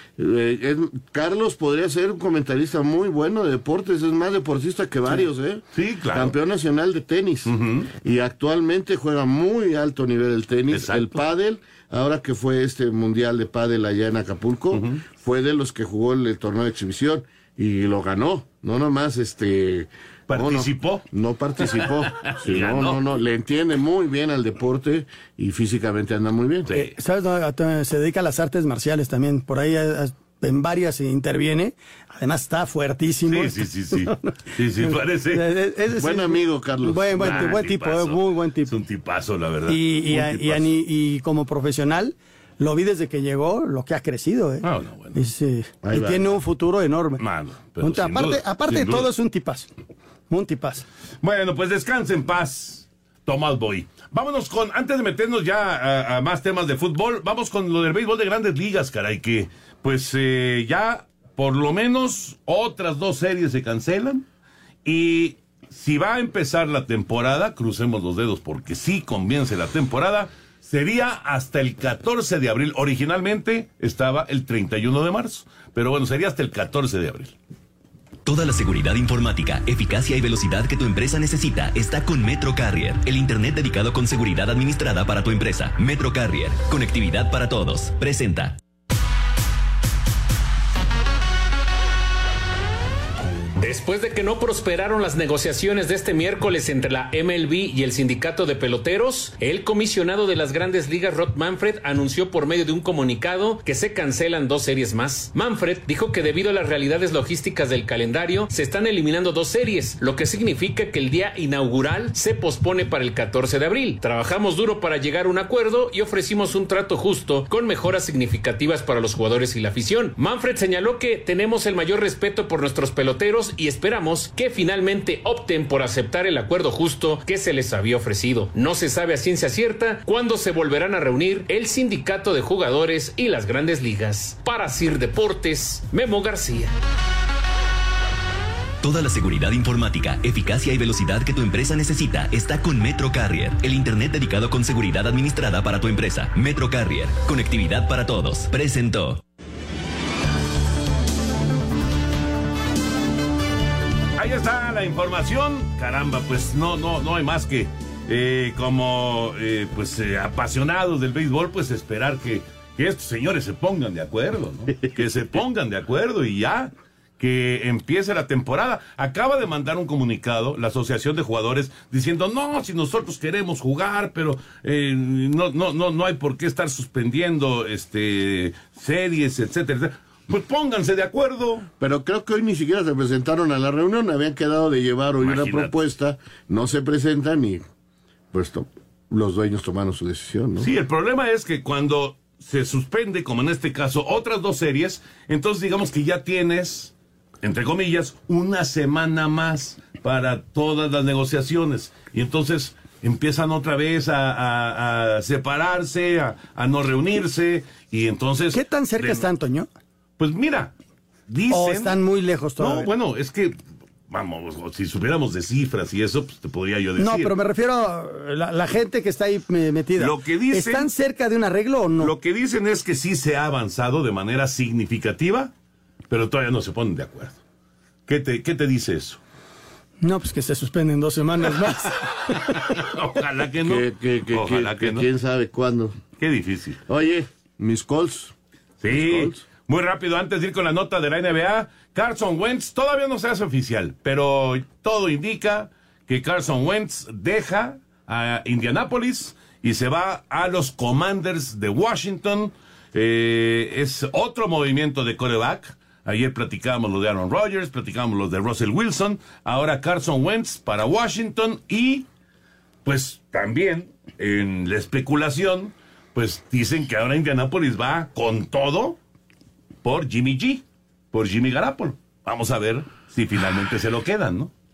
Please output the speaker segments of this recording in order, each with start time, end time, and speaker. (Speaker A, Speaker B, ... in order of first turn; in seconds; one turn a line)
Speaker A: 0.2-26.7
Speaker B: 5.1-6.3
Speaker B: 7.5-7.9
Speaker B: 10.7-11.2
Speaker B: 14.7-15.0
Speaker B: 20.3-21.0
Speaker B: 21.6-23.0
Speaker B: 26.7-26.9
Speaker C: 26.7-38.7
Speaker B: 33.3-35.5
Speaker A: 35.9-37.6
Speaker B: 37.2-40.7
Speaker C: 39.7-47.2
Speaker B: 44.6-45.2
Speaker A: 45.8-46.2
Speaker B: 47.2-49.1
Speaker C: 47.8-49.7
Speaker C: 50.3-50.8
Speaker B: 51.2-64.2
Speaker B: 64.8-77.3
Speaker D: 78.2-88.6
Speaker E: 93.6-136.7
Speaker D: 138.8-149.2
Speaker B: 154.2-181.7
Speaker A: 181.8-187.6
Speaker B: 185.2-185.7
Speaker A: 188.3-190.7
Speaker B: 190.6-209.2
Speaker C: 208.5-209.7
Speaker B: 210.2-210.7
Speaker B: 211.3-212.0
Speaker C: 211.5-212.9
Speaker B: 212.6-213.5
Speaker B: 214.1-217.3
Speaker C: 217.0-222.1
Speaker B: 220.0-220.9
Speaker B: 222.0-225.5
Speaker B: 226.1-227.4
Speaker B: 228.1-229.2
Speaker C: 230.0-232.7
Speaker B: 232.4-235.1
Speaker A: 233.6-235.9
Speaker B: 236.2-236.8
Speaker A: 236.9-238.3
Speaker B: 238.8-262.1
Speaker A: 238.9-239.4
Speaker B: 262.8-269.0
Speaker B: 269.8-274.5